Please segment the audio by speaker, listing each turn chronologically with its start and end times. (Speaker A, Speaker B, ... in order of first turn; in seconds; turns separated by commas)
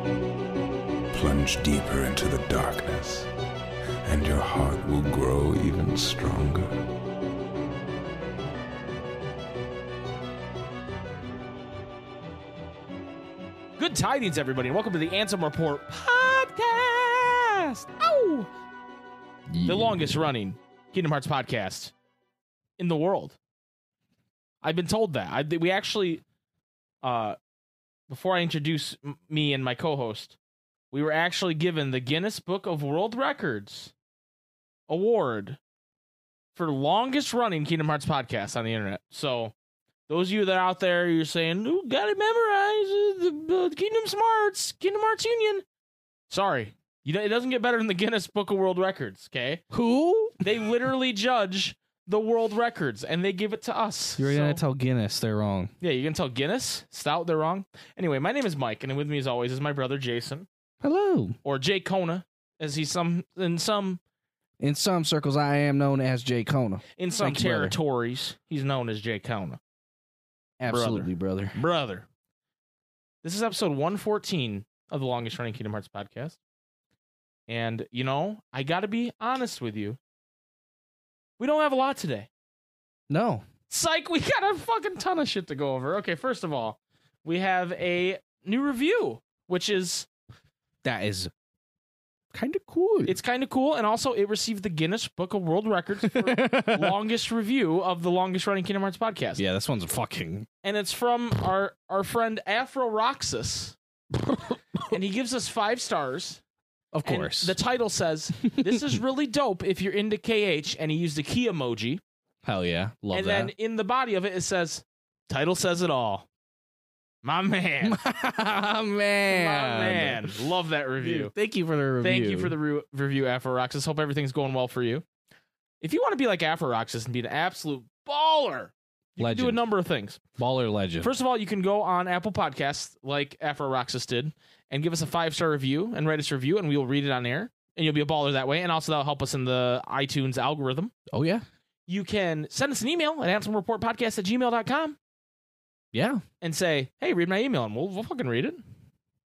Speaker A: 1.1-3.3, Speaker A: 4.0-6.8, Speaker B: 13.8-18.5, Speaker C: 19.5-20.2, Speaker B: 19.6-21.9, Speaker B: 22.8-23.4, Speaker B: 24.6-26.2, Speaker B: 27.0-27.4, Speaker B: 28.1-30.4, Speaker B: 30.9-33.9, Speaker B: 34.9-35.6, Speaker B: 36.5-39.5, Speaker B: 40.1-45.6, Speaker B: 46.3-49.6, Speaker C: 49.7-50.4, Speaker B: 50.4-54.6, Speaker C: 54.2-55.7, Speaker B: 55.8-60.5, Speaker C: 60.8-61.4, Speaker B: 61.4-64.0, Speaker C: 64.6-67.8, Speaker B: 67.0-69.6, Speaker C: 70.6-71.6, Speaker B: 70.7-72.1, Speaker B: 73.2-76.4, Speaker B: 77.5-80.0, Speaker B: 81.4-82.3, Speaker C: 83.1-83.5, Speaker B: 83.7-90.1, Speaker C: 90.8-91.3, Speaker C: 92.3-93.2, Speaker B: 93.1-99.4, Speaker C: 96.1-97.0, Speaker C: 99.4-100.5, Speaker B: 100.6-103.8, Speaker C: 104.2-104.8, Speaker B: 104.9-106.4, Speaker C: 106.9-107.5, Speaker B: 107.0-112.0, Speaker C: 108.5-109.0, Speaker C: 112.4-113.5, Speaker B: 113.1-116.3, Speaker B: 117.2-118.0, Speaker C: 117.8-120.3, Speaker B: 119.3-121.3, Speaker C: 121.0-122.5, Speaker B: 122.0-125.0, Speaker B: 125.8-130.2, Speaker C: 129.2-129.6, Speaker C: 130.4-131.1, Speaker B: 131.0-140.9, Speaker C: 141.1-141.4, Speaker B: 141.9-145.0, Speaker C: 145.9-146.2, Speaker B: 146.4-148.6